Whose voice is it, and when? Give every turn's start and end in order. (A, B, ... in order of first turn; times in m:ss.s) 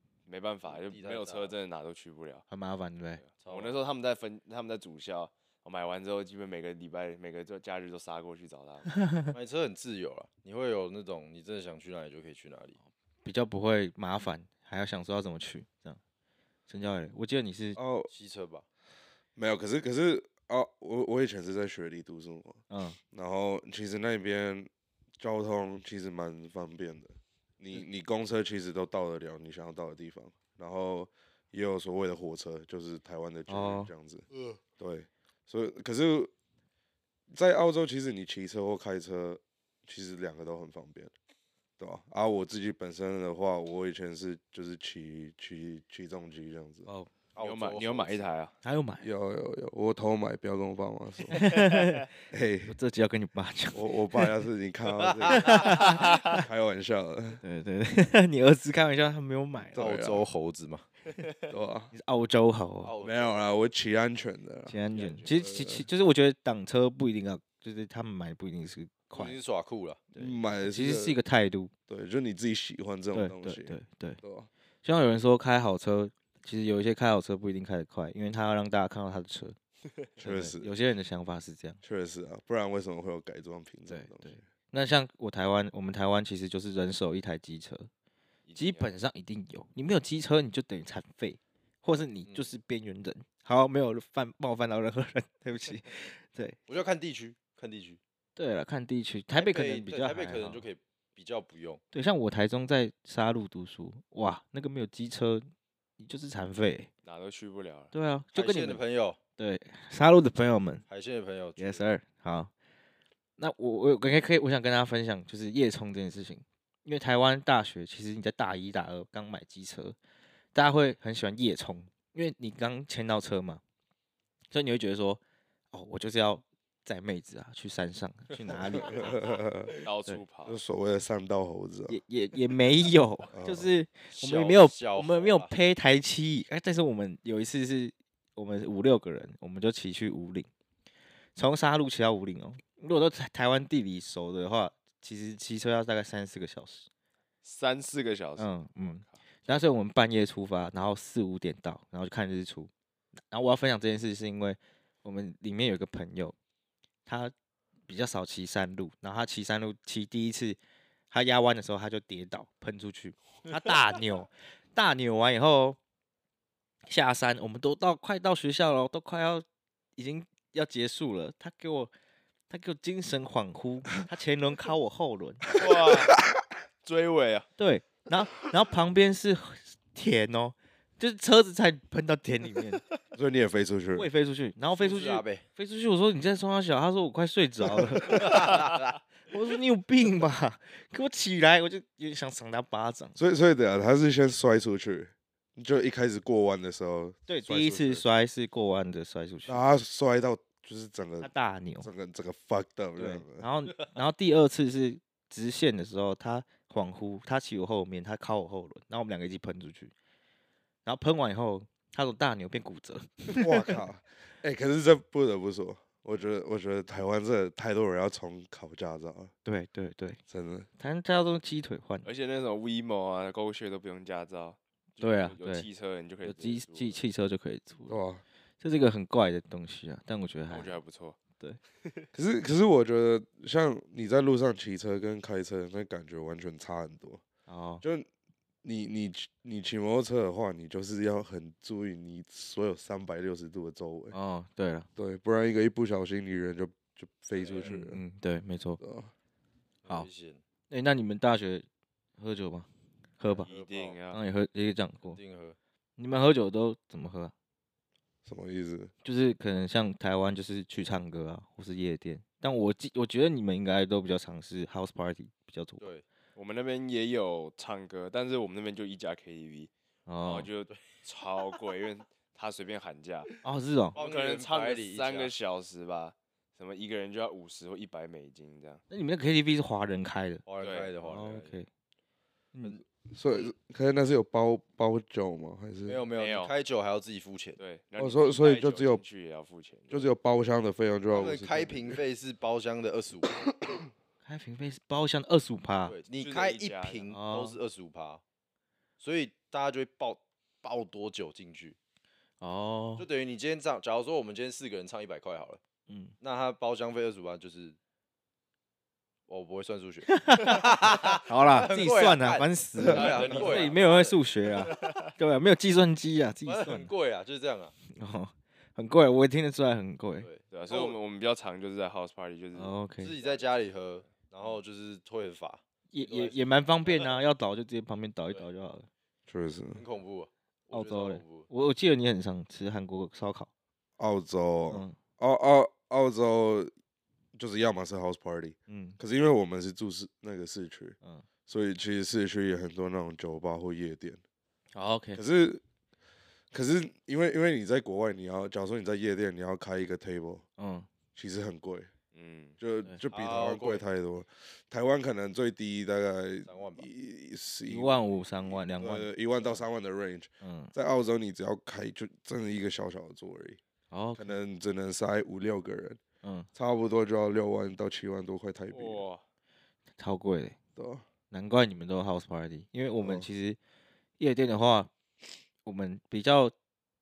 0:00.3-0:02.5 A
0:00.7-0:01.6 B
0:02.5-0:03.2 C
0:03.2-0:09.0 A
0:03.4-0:03.8 B
0:09.3-0:12.8 B
0:13.2-0:16.0 C
0:16.7-0:17.8 C
0:17.8-0:18.1 D
0:18.1-0:18.6 B
0:19.4-0:34.3 D
0:22.7-0:23.0 C
0:33.5-0:33.9 C
0:34.8-0:36.3 D
0:37.3-0:41.1 D
0:41.8-0:46.9 D
0:47.4-0:48.3 B
0:47.4-0:48.5 A
0:48.6-0:49.1 C
0:49.0-0:51.5 D
0:51.3-0:52.1 C
0:52.3-0:52.8 D
0:52.7-0:54.3 C
0:53.7-0:57.4 D
0:55.0-0:55.9 B
0:55.3-0:56.4 C
0:56.0-0:56.3 A
0:57.4-0:59.9 C
0:59.7-1:00.3 D
0:59.8-1:00.9 B
1:01.5-1:01.9 D
1:01.9-1:02.9 C
1:02.8-1:03.4 B
1:03.0-1:05.9 D
1:04.7-1:09.4 C
1:04.9-1:05.3 A
1:09.1-1:10.0 B
1:10.1-1:11.7 C
1:10.2-1:11.2 D
1:11.9-1:14.5 D
1:13.1-1:14.2 C
1:14.8-1:19.6 C
1:20.2-1:20.7 D
1:20.2-1:21.8 C
1:21.8-1:24.4 D
1:23.9-1:27.9 C
1:28.5-1:28.9 A
1:28.6-1:36.6 C
1:36.7-1:38.0 B
1:38.4-1:40.6 C
1:39.4-1:41.8 B
1:41.9-1:46.9 C
1:47.0-1:47.9 A
1:47.9-1:48.8 C
1:48.4-1:49.2 B
1:49.4-1:50.8 C
1:50.9-1:51.9 B
1:51.6-1:52.5 C
1:53.4-2:00.0 C
2:00.5-2:03.6 C
2:04.5-2:05.2 C
2:05.7-2:09.1 C
2:08.5-2:09.7 D
2:09.8-2:10.6 A
2:10.5-2:12.0 D
2:11.9-2:20.5 C
2:13.3-2:13.7 D
2:14.1-2:15.5 B
2:21.4-2:26.9 C
2:27.4-2:29.5 A
2:28.4-2:32.7 C
2:33.3-2:36.4 C
2:37.1-2:37.3 C
2:37.9-2:40.6 C
2:41.1-2:45.8 C
2:46.9-2:49.4 C
2:50.0-2:51.9 C
2:52.5-2:55.5 C
2:55.6-2:56.2 A
2:56.8-2:57.5 A
2:57.6-3:02.8 C
3:03.1-3:04.1 D
3:04.0-3:08.7 C
3:04.8-3:05.4 B
3:08.1-3:08.9 B
3:09.3-3:13.2 C
3:13.2-3:18.0 D
3:17.3-3:19.6 C
3:19.5-3:23.5 D
3:21.2-3:21.9 C
3:23.0-3:29.9 C
3:30.8-3:33.6 C
3:33.4-3:39.3 D
3:39.4-3:40.2 C
3:40.3-3:40.7 D
3:40.8-3:42.1 C
3:42.0-3:47.0 A
3:45.0-3:45.7 C
3:46.2-3:48.0 C
3:47.9-3:48.2 D
3:48.6-3:50.8 C
3:50.5-3:51.2 A
3:52.1-3:57.2 D
3:57.5-3:57.8 C
3:57.8-3:58.1 D
3:58.6-4:04.2 D
4:04.1-4:04.9 C
4:05.0-4:08.0 D
4:07.3-4:07.7 B
4:07.6-4:08.8 C
4:08.8-4:09.1 D
4:09.8-4:10.4 B
4:10.7-4:11.7 C
4:12.2-4:12.7 C
4:13.2-4:13.5 C
4:13.3-4:14.0 B
4:13.4-4:14.2 A
4:14.1-4:15.2 C
4:15.1-4:15.6 B
4:16.0-4:17.3 C
4:18.2-4:18.9 D
4:19.0-4:25.9 C
4:26.4-4:29.7 A
4:30.1-4:30.5 C
4:30.2-4:33.3 A
4:33.4-4:34.0 C
4:34.0-4:35.3 B
4:34.0-4:38.8 A
4:38.9-4:40.4 C
4:40.5-4:41.6 B
4:40.6-4:40.9 A
4:41.0-4:41.7 C
4:42.5-4:42.8 C
4:43.1-4:46.0 D
4:45.9-4:47.6 B
4:46.2-4:46.5 A
4:47.6-4:50.1 A
4:48.0-4:49.0 D
4:49.9-4:52.0 D
4:51.1-4:53.4 B
4:54.2-4:56.0 C
4:55.9-4:58.2 B
4:56.2-4:57.0 A
4:57.1-4:57.6 C
4:59.0-5:01.8 B
5:02.4-5:03.0 C
5:03.0-5:05.6 B
5:05.9-5:06.1 C
5:06.2-5:07.8 B
5:09.3-5:14.9 B
5:10.1-5:16.9 C
5:12.9-5:13.8 A
5:14.6-5:15.1 A
5:16.4-5:17.8 B
5:17.9-5:20.3 C
5:20.2-5:21.0 B
5:20.5-5:23.4 A
5:22.6-5:23.2 C
5:23.0-5:27.2 B
5:25.9-5:28.9 C
5:29.3-5:29.8 D
5:29.7-5:31.5 B
5:30.7-5:33.5 C
5:34.0-5:36.7 D
5:34.7-5:35.0 C
5:37.4-5:41.0 D
5:38.7-5:39.0 C
5:41.5-5:44.2 D
5:44.8-5:45.2 C
5:45.2-5:45.6 D
5:46.5-5:50.4 D
5:50.6-5:50.9 C
5:51.2-5:51.9 D
5:52.1-5:52.6 A
5:52.6-6:03.6 D
5:53.1-5:53.8 B
5:56.5-5:56.9 B
5:57.7-5:59.1 C
6:00.4-6:00.7 C
6:03.9-6:04.4 C
6:04.2-6:06.0 D
6:06.2-6:06.5 C
6:06.6-6:09.0 D
6:08.7-6:09.2 A
6:10.0-6:10.6 C
6:10.8-6:11.0 D
6:11.3-6:13.6 C
6:13.0-6:13.3 D
6:14.2-6:14.9 C
6:15.6-6:16.5 C